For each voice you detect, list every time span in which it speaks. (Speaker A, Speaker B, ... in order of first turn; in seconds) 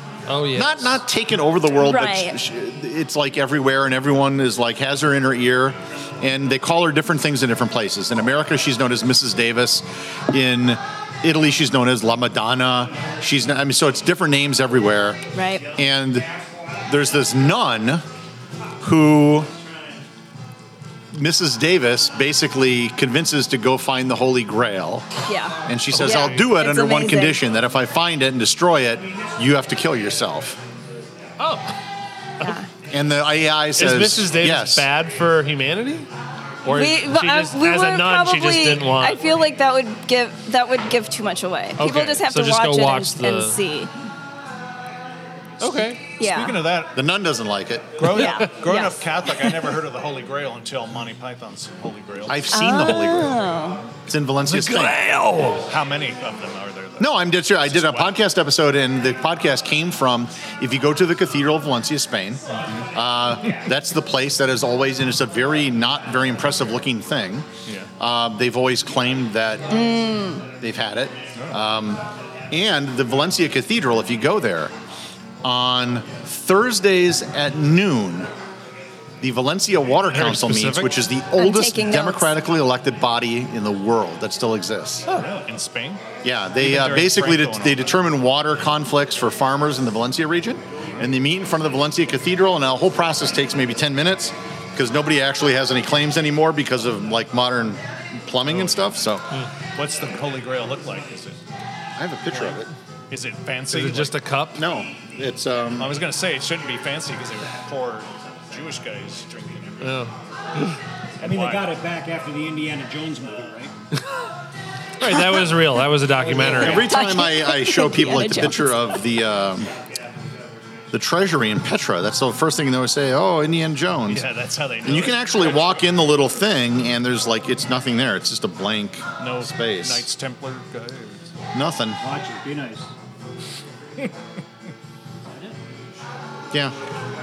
Speaker A: 0.3-1.0, 31.4-31.8, 33.8-36.1, 36.6-39.2, 41.8-43.6, 45.6-46.0, 54.5-55.7, 80.1-81.0, 103.7-104.6, 109.8-110.8, 115.0-116.9
Speaker B: 0.6-16.3, 16.9-18.1, 18.8-19.5, 21.1-25.1, 25.7-30.6, 32.9-34.9, 46.9-48.1, 52.3-53.5, 54.1-55.0, 57.0-69.8, 70.6-74.7, 75.4-78.3, 79.2-85.1, 86.2-99.3, 102.0-102.7, 104.5-106.0, 116.3-119.7, 120.9-124.3, 124.8-130.1, 131.5-132.0
Speaker C: 1.8-2.4, 15.3-15.7, 25.3-27.4, 32.4-32.7, 36.7-43.9, 46.2-46.7, 48.1-49.5, 52.5-53.9, 69.7-70.5, 81.4-82.3, 116.4-118.8
Speaker D: 46.2-46.9, 48.0-52.5, 55.5-58.2, 85.1-86.0, 86.6-87.9, 98.5-98.9, 99.8-101.4, 102.3-102.6, 103.1-104.2, 105.8-110.1, 111.2-111.7, 124.1-125.9, 129.2-131.3
Speaker E: 111.2-113.7, 132.0-132.9, 135.2-135.6